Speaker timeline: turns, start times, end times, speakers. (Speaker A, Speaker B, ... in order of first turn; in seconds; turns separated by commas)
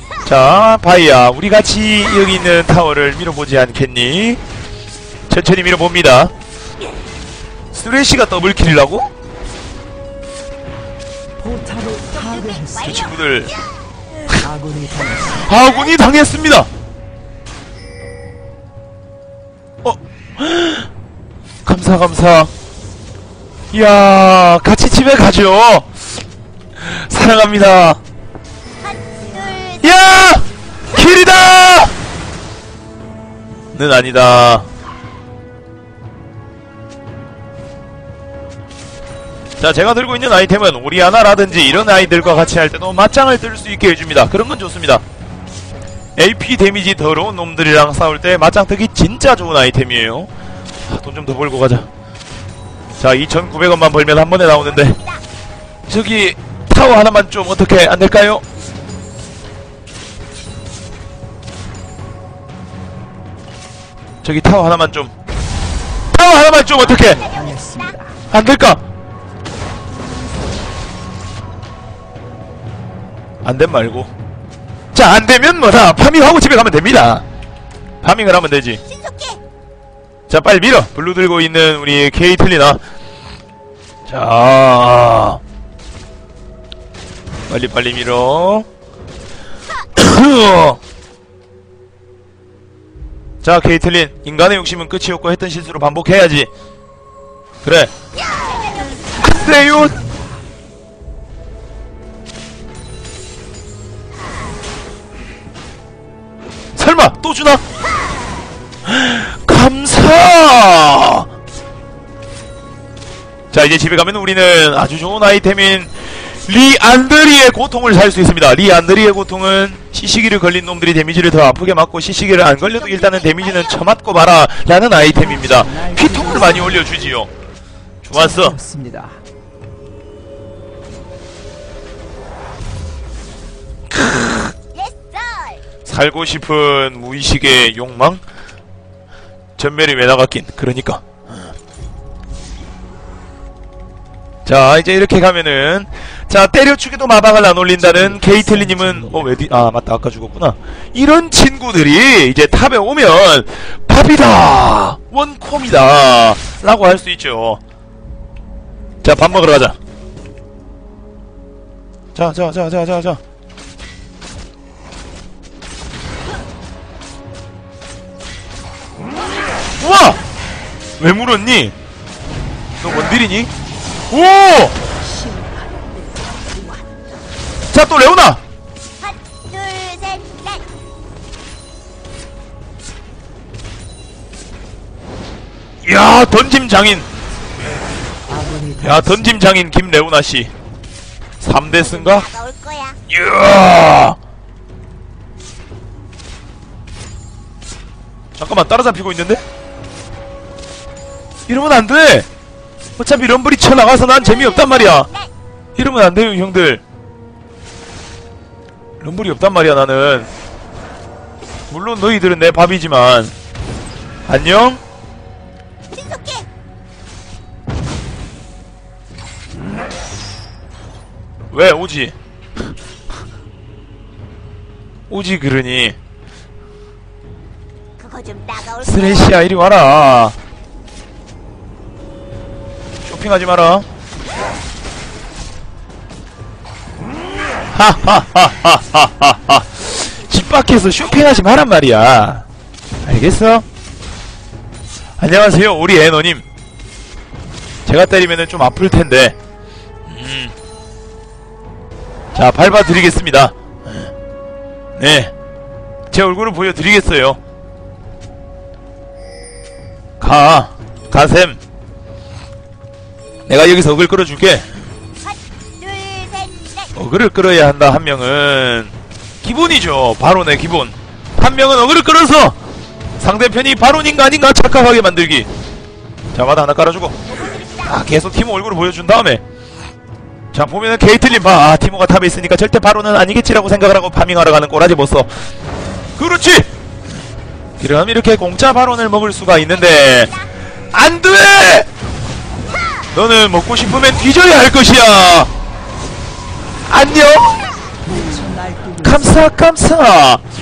Speaker A: 0.2-4.4, Speaker A: 5.3-6.3, Speaker A: 7.7-9.1, Speaker B: 11.4-13.1, Speaker C: 12.1-13.5, Speaker A: 12.8-13.5, Speaker B: 14.4-15.5, Speaker A: 15.4-16.7, Speaker A: 19.8-20.9, Speaker A: 21.6-22.5, Speaker A: 23.7-25.9, Speaker A: 26.8-28.0, Speaker C: 28.8-30.4, Speaker A: 29.8-31.9, Speaker A: 33.7-34.6, Speaker A: 39.6-45.0, Speaker C: 41.3-42.7, Speaker A: 46.2-50.3, Speaker A: 50.9-51.9, Speaker A: 53.0-55.0, Speaker C: 54.5-55.2, Speaker A: 55.9-58.4, Speaker A: 64.2-65.1, Speaker A: 66.1-67.2, Speaker C: 66.7-68.0, Speaker B: 66.9-68.2, Speaker A: 68.3-68.8, Speaker A: 73.4-74.1, Speaker A: 74.9-77.2, Speaker A: 78.0-78.8, Speaker C: 78.8-79.4, Speaker A: 80.3-82.8, Speaker A: 84.1-85.4, Speaker A: 87.5-88.7, Speaker A: 90.0-90.8, Speaker A: 93.4-96.5, Speaker A: 97.6-97.9, Speaker C: 98.2-99.4, Speaker A: 99.2-100.0, Speaker B: 99.4-100.0, Speaker A: 106.7-107.6, Speaker A: 108.8-111.3, Speaker A: 113.5-127.3, Speaker C: 122.4-123.9, Speaker B: 124.9-126.9, Speaker A: 128.0-128.6, Speaker B: 128.1-129.2, Speaker A: 133.9-134.5, Speaker C: 134.7-135.6, Speaker A: 135.8-138.2, Speaker A: 139.6-141.0, Speaker A: 144.4-157.6, Speaker B: 147.8-149.3, Speaker A: 159.0-159.8, Speaker A: 162.1-163.2, Speaker A: 169.8-170.2, Speaker A: 171.0-171.7, Speaker A: 172.8-173.5, Speaker A: 174.1-174.7, Speaker B: 175.0-177.0, Speaker A: 177.7-178.4, Speaker C: 179.0-180.7, Speaker A: 185.8-187.1, Speaker B: 188.3-189.4, Speaker A: 188.8-190.5, Speaker A: 191.4-192.2, Speaker C: 191.6-193.0, Speaker A: 193.1-194.2, Speaker A: 198.4-199.4, Speaker A: 201.5-202.3, Speaker A: 203.0-205.1, Speaker C: 204.1-205.3, Speaker A: 205.8-206.8, Speaker A: 209.0-210.3, Speaker A: 211.7-213.3, Speaker A: 214.3-214.8, Speaker C: 215.9-216.5, Speaker A: 221.5-222.1, Speaker A: 225.1-226.0, Speaker C: 228.0-229.5, Speaker A: 228.8-230.3, Speaker A: 233.0-233.8, Speaker A: 237.7-242.4, Speaker C: 240.0-241.6, Speaker A: 243.0-243.6, Speaker A: 245.2-246.4, Speaker A: 247.8-249.3, Speaker A: 250.1-250.5, Speaker C: 252.3-252.8, Speaker A: 252.3-254.1, Speaker A: 255.0-255.3, Speaker A: 256.1-257.4, Speaker A: 260.2-261.6, Speaker A: 263.5-264.7, Speaker C: 265.2-266.9, Speaker A: 266.9-268.9, Speaker A: 269.4-272.6, Speaker A: 273.2-275.5, Speaker A: 276.3-277.2, Speaker C: 277.3-278.0, Speaker A: 277.8-279.4, Speaker A: 280.5-285.3, Speaker A: 286.2-286.7, Speaker A: 287.8-290.3, Speaker C: 289.7-290.5, Speaker A: 290.9-291.9, Speaker A: 293.1-295.5, Speaker A: 296.9-297.6, Speaker B: 298.0-299.5, Speaker A: 299.0-300.4